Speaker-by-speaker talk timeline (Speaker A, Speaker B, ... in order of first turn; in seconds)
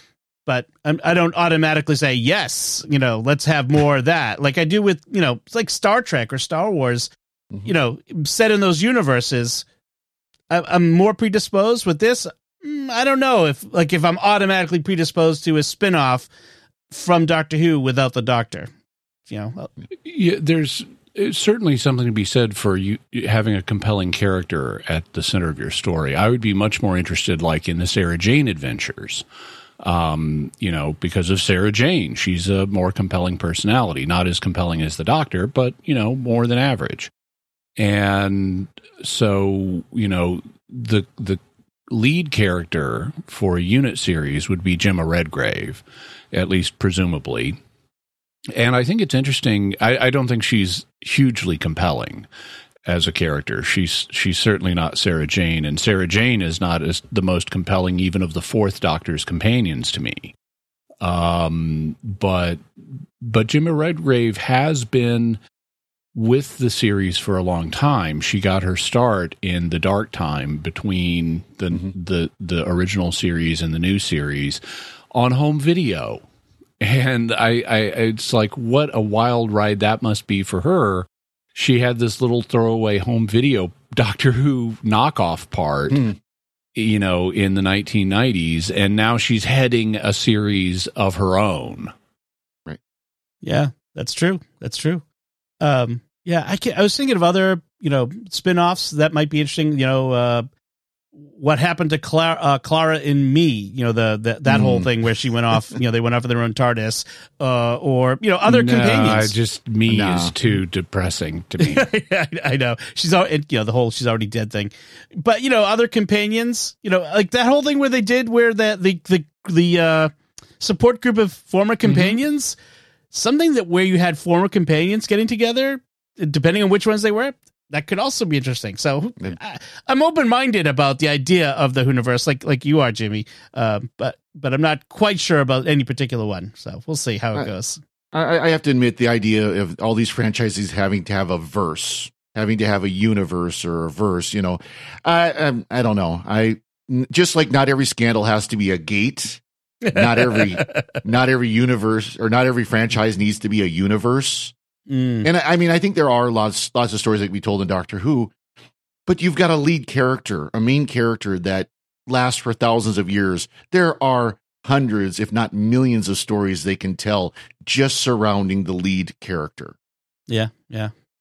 Speaker A: 0.5-7.1, 7.6-9.6, 10.5-16.3, 16.9-18.7, 19.3-19.7, 93.4-95.0, 95.6-100.5, 101.2-109.3, 111.6-122.6, 123.1-137.8, 149.8-150.9, 154.9-155.3, 170.3-170.9
Speaker B: 20.0-29.2, 29.8-37.1, 37.8-47.6, 48.5-52.3, 52.8-60.3, 61.0-65.4, 66.1-74.6, 75.1-76.2, 76.8-86.1, 86.7-91.9, 108.4-111.9, 121.9-122.2
Speaker C: 104.5-104.9, 109.9-110.3, 138.1-149.4, 149.9-154.5, 155.2-158.3, 159.1-169.7